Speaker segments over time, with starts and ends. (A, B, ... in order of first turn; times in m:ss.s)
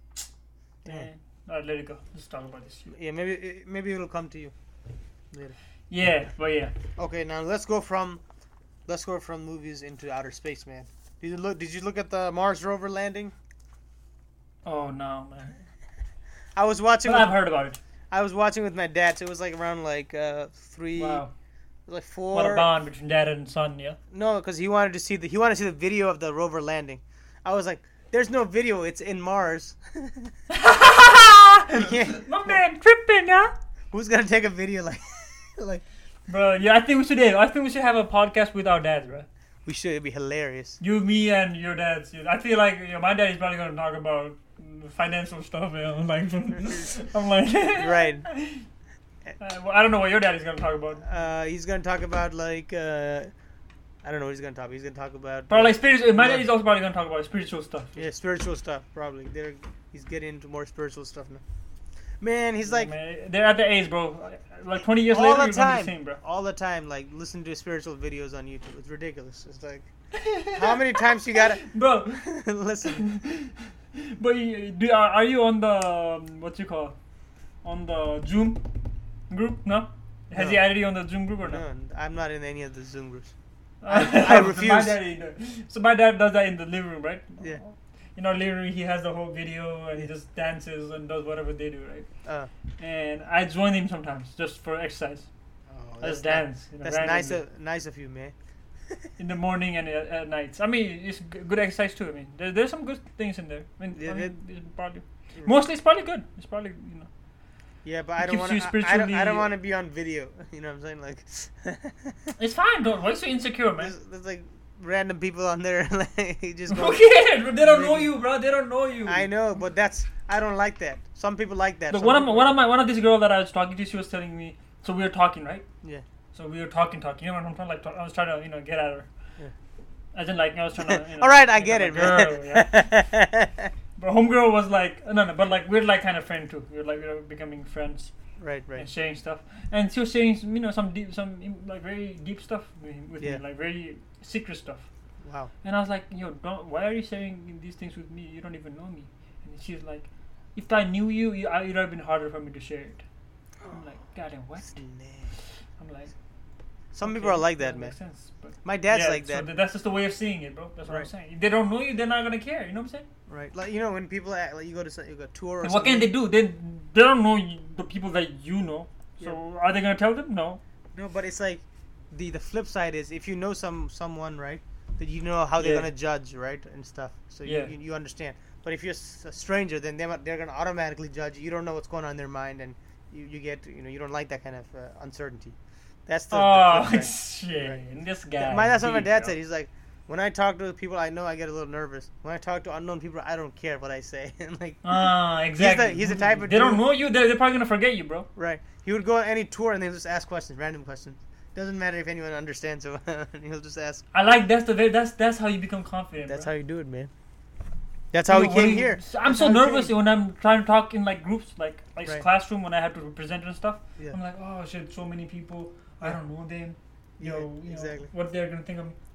0:00.8-0:02.9 A
0:02.9-0:04.5 B
0:05.3-0:05.6 B
0:05.9-0:06.8 A
0:07.0-0:08.2 B
0:08.9-0:13.3 B
0:14.6-0:15.5 A
0:16.6-0:17.4 B
0:17.0-0:17.8 A
0:18.1-0:21.2 B
0:21.0-0:21.3 A
0:21.9-0:22.7 B
0:22.3-0:24.0 A
0:24.1-0:30.3 B
0:30.5-0:33.5 A
0:31.7-0:32.6 B
0:33.9-0:35.8 B
0:36.3-0:39.3 A
0:39.6-0:40.8 B
0:40.8-0:48.7 A
0:47.7-0:48.3 B
0:49.4-0:51.1 A
0:51.0-0:53.3 B
0:54.0-0:56.5 B
0:55.5-0:58.0 A
0:58.0-1:01.4 B
1:02.2-1:02.9 B
1:02.6-1:06.2 A
1:05.1-1:09.9 B
1:10.1-1:12.3 A
1:10.5-1:11.6 B
1:12.2-1:13.0 B
1:12.8-1:17.0 A
1:17.6-1:18.7 A
1:19.3-1:21.6 A
1:20.3-1:20.6 B
1:21.4-1:23.3 B
1:23.8-1:32.1 A
1:23.9-1:25.0 B
1:32.2-1:32.5 B
1:32.8-1:35.3 A
1:35.7-1:38.3 B
1:36.0-1:37.4 A
1:39.2-1:47.1 A
1:43.9-1:44.3 B
1:47.8-1:52.3 B
1:48.2-1:49.5 A
1:52.4-1:53.9 A
1:53.8-1:57.0 B
1:56.7-1:59.3 A
1:57.6-1:58.1 B
1:59.0-2:02.6 B
2:01.9-2:05.6 A
2:06.3-2:09.1 A
2:10.1-2:12.9 A
2:10.8-2:13.7 B
2:14.0-2:18.1 A
2:18.4-2:18.9 B
2:18.8-2:24.9 A
2:25.2-2:25.5 B
2:25.6-2:33.0 A
2:33.7-2:34.8 A
2:34.6-2:35.3 B
2:35.8-2:36.1 A
2:36.9-2:38.0 B
2:37.0-2:43.1 A
2:38.6-2:39.5 B
2:43.3-2:46.1 B
2:45.6-2:50.6 A
2:50.9-3:07.8 B
2:55.6-2:55.9 A
2:57.4-2:57.7 A
3:06.3-3:09.3 A
3:08.4-3:15.0 B
3:14.8-3:18.3 A
3:15.6-3:16.8 B
3:18.4-3:24.0 B
3:24.1-3:26.5 A
3:26.2-3:27.1 B
3:28.1-3:29.9 B
3:28.2-3:39.0 A
3:37.2-3:38.1 B